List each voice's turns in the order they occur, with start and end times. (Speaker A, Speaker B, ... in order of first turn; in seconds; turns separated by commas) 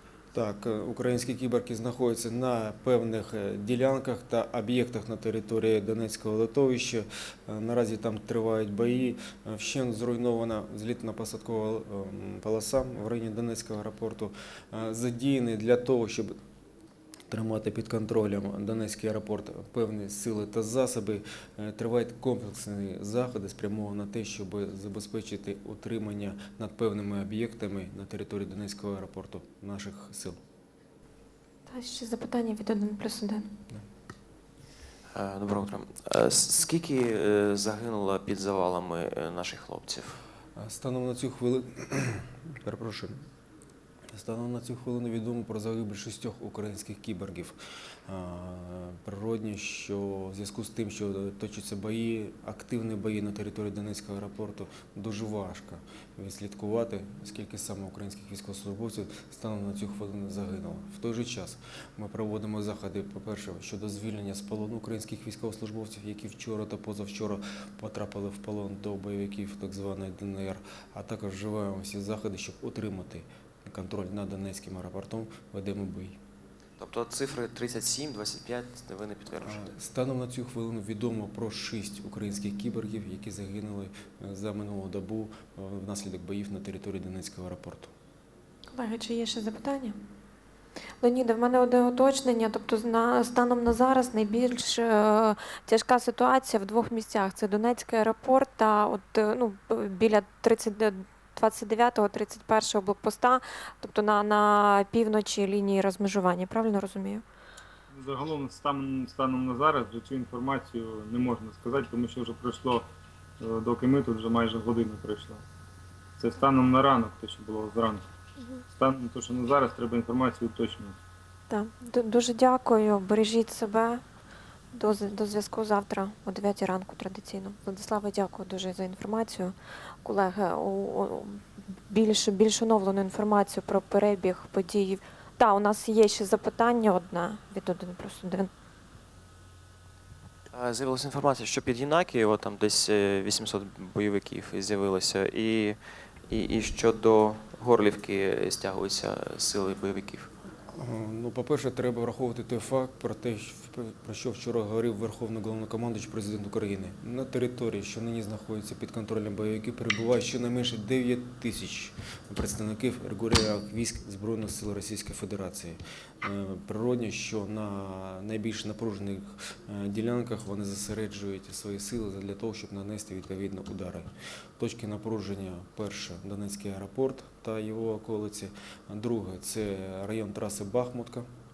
Speaker A: 0.3-16.4, Speaker A: 17.3-30.4, Speaker B: 31.7-33.5, Speaker C: 35.1-40.2, Speaker A: 40.6-43.2, Speaker A: 44.1-76.2, Speaker C: 76.8-79.6, Speaker A: 79.4-87.9, Speaker B: 88.7-90.0, Speaker B: 91.0-107.2, Speaker D: 107.9-112.9, Speaker D: 113.4-115.4, Speaker D: 116.2-118.1, Speaker D: 118.7-121.0, Speaker B: 121.5-124.0, Speaker B: 124.7-138.5, Speaker C: 140.5-150.3, Speaker A: 150.7-181.3